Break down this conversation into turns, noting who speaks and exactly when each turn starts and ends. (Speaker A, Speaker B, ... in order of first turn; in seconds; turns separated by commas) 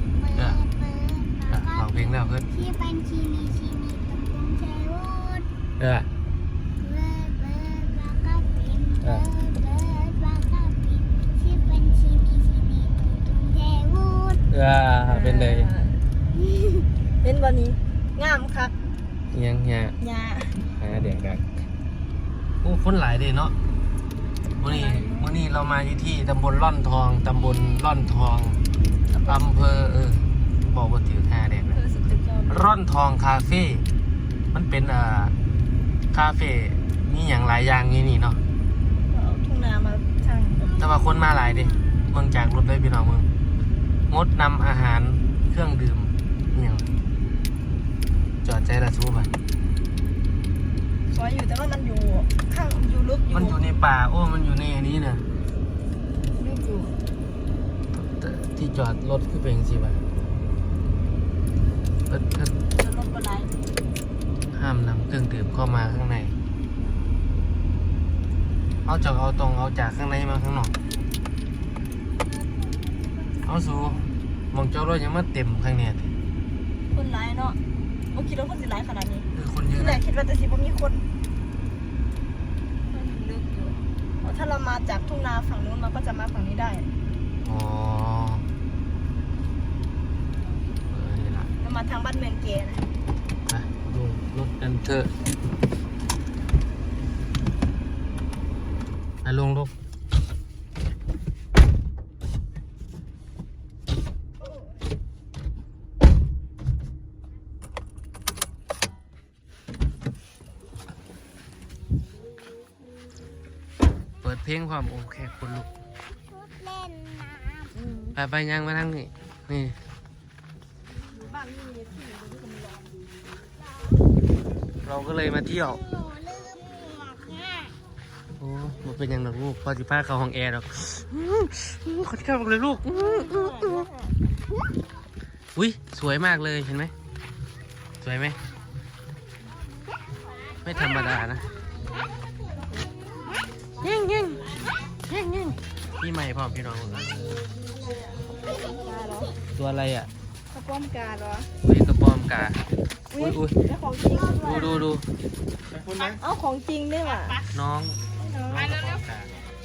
Speaker A: 0.3-0.6, Speaker A: 1.5-2.5, Speaker B: 3.1-5.2, Speaker A: 5.8-6.1, Speaker B: 7.0-7.9, Speaker A: 9.0-9.3, Speaker B: 9.8-10.1, Speaker B: 13.6-14.4, Speaker A: 14.5-15.7, Speaker C: 15.0-18.7, Speaker A: 19.3-19.9, Speaker C: 20.0-20.6, Speaker A: 20.8-21.4, Speaker A: 22.6-23.6, Speaker A: 24.6-28.6, Speaker C: 24.6-25.3, Speaker C: 29.1-29.5, Speaker A: 29.3-31.8, Speaker C: 31.7-32.7, Speaker A: 32.5-33.9, Speaker A: 34.5-35.4, Speaker A: 36.1-38.4, Speaker C: 39.1-40.8, Speaker A: 40.8-43.3, Speaker A: 44.1-46.9, Speaker A: 48.5-49.3, Speaker C: 51.1-53.6, Speaker A: 53.3-55.3, Speaker C: 56.4-56.9, Speaker A: 58.0-60.0, Speaker A: 62.1-62.5, Speaker C: 62.8-63.5, Speaker A: 64.5-66.3, Speaker A: 68.8-70.8, Speaker A: 73.4-76.1, Speaker C: 76.9-77.6, Speaker C: 78.1-81.1, Speaker A: 79.3-80.0, Speaker C: 82.9-86.9, Speaker A: 87.4-88.5, Speaker A: 90.9-91.5, Speaker C: 91.6-92.8, Speaker A: 93.5-95.1, Speaker A: 99.2-99.7, Speaker A: 114.2-115.7, Speaker C: 117.8-118.2, Speaker A: 118.2-119.8, Speaker C: 121.2-122.9, Speaker A: 124.8-125.8, Speaker A: 128.4-133.9, Speaker C: 132.9-134.1, Speaker A: 135.6-136.9, Speaker A: 138.0-138.4, Speaker A: 140.7-141.5, Speaker A: 143.8-147.4, Speaker C: 148.4-149.3, Speaker A: 149.6-150.1, Speaker C: 150.5-151.5, Speaker A: 151.6-152.6, Speaker C: 153.1-154.8, Speaker A: 153.1-153.6, Speaker A: 154.4-155.1, Speaker A: 155.7-156.2, Speaker C: 156.2-157.4, Speaker A: 157.5-159.3, Speaker C: 158.2-158.7